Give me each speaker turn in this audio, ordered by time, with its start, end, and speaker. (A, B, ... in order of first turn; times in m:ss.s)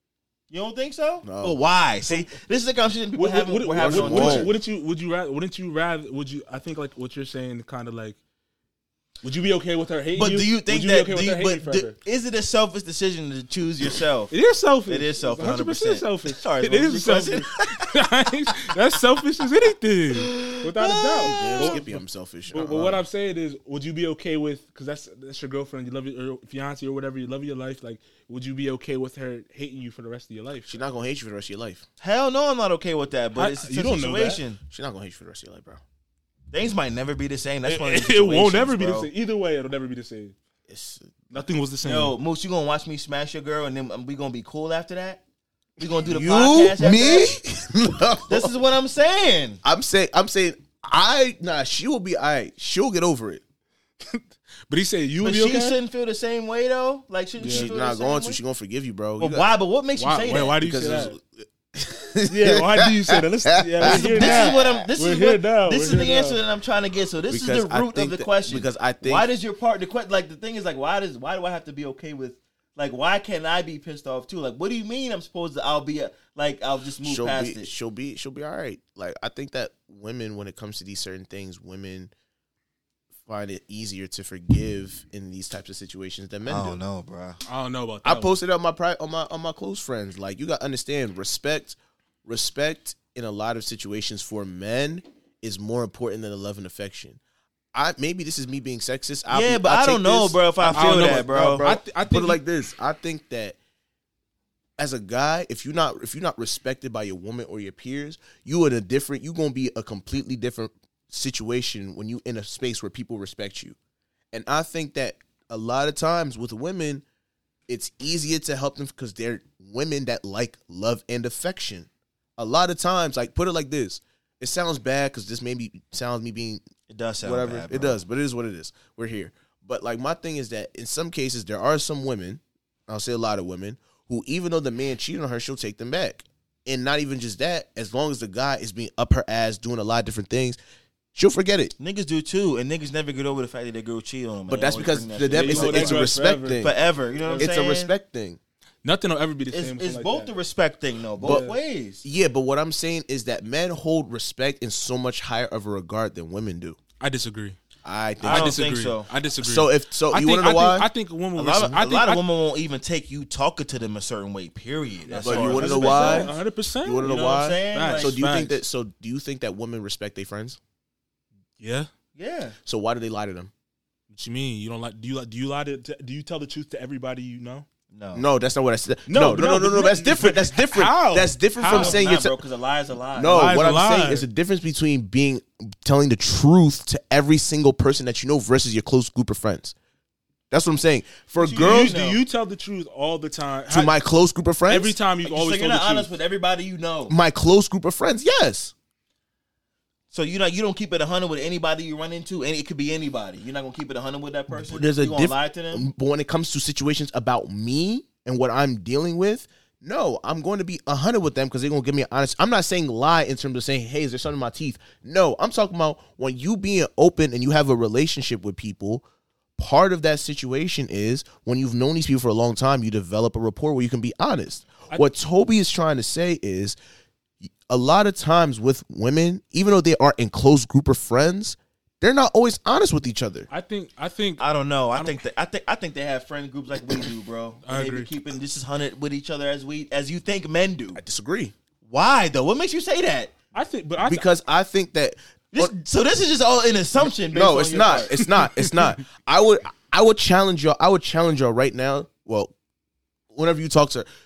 0:00.5-0:04.5 A
0:01.2-0:01.6 B
0:03.1-0:08.2 C
0:03.8-0:04.5 B
0:09.2-0:12.0 C
0:10.1-0:14.3 A
0:14.3-0:30.8 C
0:14.9-0:17.6 A
0:20.3-0:21.8 A
0:21.1-0:23.0 B
0:30.7-0:31.8 B
0:32.0-0:34.6 A
0:33.3-0:34.4 C
0:34.7-0:35.8 B
0:36.5-0:39.1 A
0:37.6-0:40.3 C
0:40.7-0:41.2 B
0:41.3-0:42.2 C
0:41.8-0:45.2 A
0:45.8-0:47.3 A
0:46.0-0:48.5 B
0:48.3-0:49.6 A
0:49.6-0:53.4 B
0:54.1-0:55.8 C
0:55.2-0:58.4 A
0:57.4-0:57.7 C
0:57.4-0:59.5 B
0:59.2-1:00.6 A
1:00.0-1:01.2 C
1:00.6-1:04.8 B
1:02.3-1:06.4 C
1:03.8-1:17.7 A
1:07.3-1:09.3 B
1:17.0-1:22.1 B
1:23.2-1:26.8 B
1:26.4-1:27.4 A
1:27.4-1:28.4 C
1:28.0-1:37.2 B
1:37.7-1:43.6 B
1:39.3-1:41.7 A
1:40.7-1:42.4 C
1:44.8-1:53.8 B
1:54.3-1:57.0 B
1:57.7-2:06.6 B
2:06.9-2:08.0 A
2:07.2-2:20.6 B
2:21.1-2:21.7 B
2:21.8-2:27.9 A
2:24.5-2:26.7 B
2:25.3-2:27.5 C
2:27.4-2:28.4 B
2:28.8-2:30.3 C
2:29.5-2:32.0 A
2:31.2-2:31.6 C
2:31.2-2:31.5 B
2:32.0-2:36.8 B
2:37.0-2:37.6 C
2:37.8-2:38.6 B
2:38.2-2:39.1 A
2:38.2-2:42.2 C
2:39.4-2:40.9 B
2:41.3-2:46.3 A
2:45.1-2:48.6 C
2:45.2-2:46.3 B
2:46.8-2:50.6 B
2:47.0-2:48.2 A
2:51.6-2:51.9 C
2:52.2-2:52.5 A
2:52.6-2:53.5 B
2:54.1-2:57.6 C
2:57.9-2:58.2 A
2:58.1-3:02.4 B
2:59.1-3:02.0 C
3:01.7-3:03.5 A
3:03.1-3:09.7 B
3:03.3-3:04.2 C
3:10.5-3:11.9 B
3:11.4-3:12.2 A
3:11.6-3:13.9 C
3:13.7-3:15.0 B
3:14.7-3:16.1 C
3:15.2-3:17.1 A
3:17.1-3:18.7 B
3:20.1-3:25.9 A
3:24.5-3:39.0 B
3:39.6-3:46.8 B
3:47.4-3:53.5 B
3:53.5-3:55.2 C
3:54.4-4:01.0 A
3:57.6-3:58.1 C
4:00.9-4:01.5 B
4:01.9-4:03.3 A
4:03.5-4:04.3 C
4:04.0-4:05.7 B
4:05.5-4:08.1 A
4:07.0-4:12.5 B
4:13.3-4:14.1 B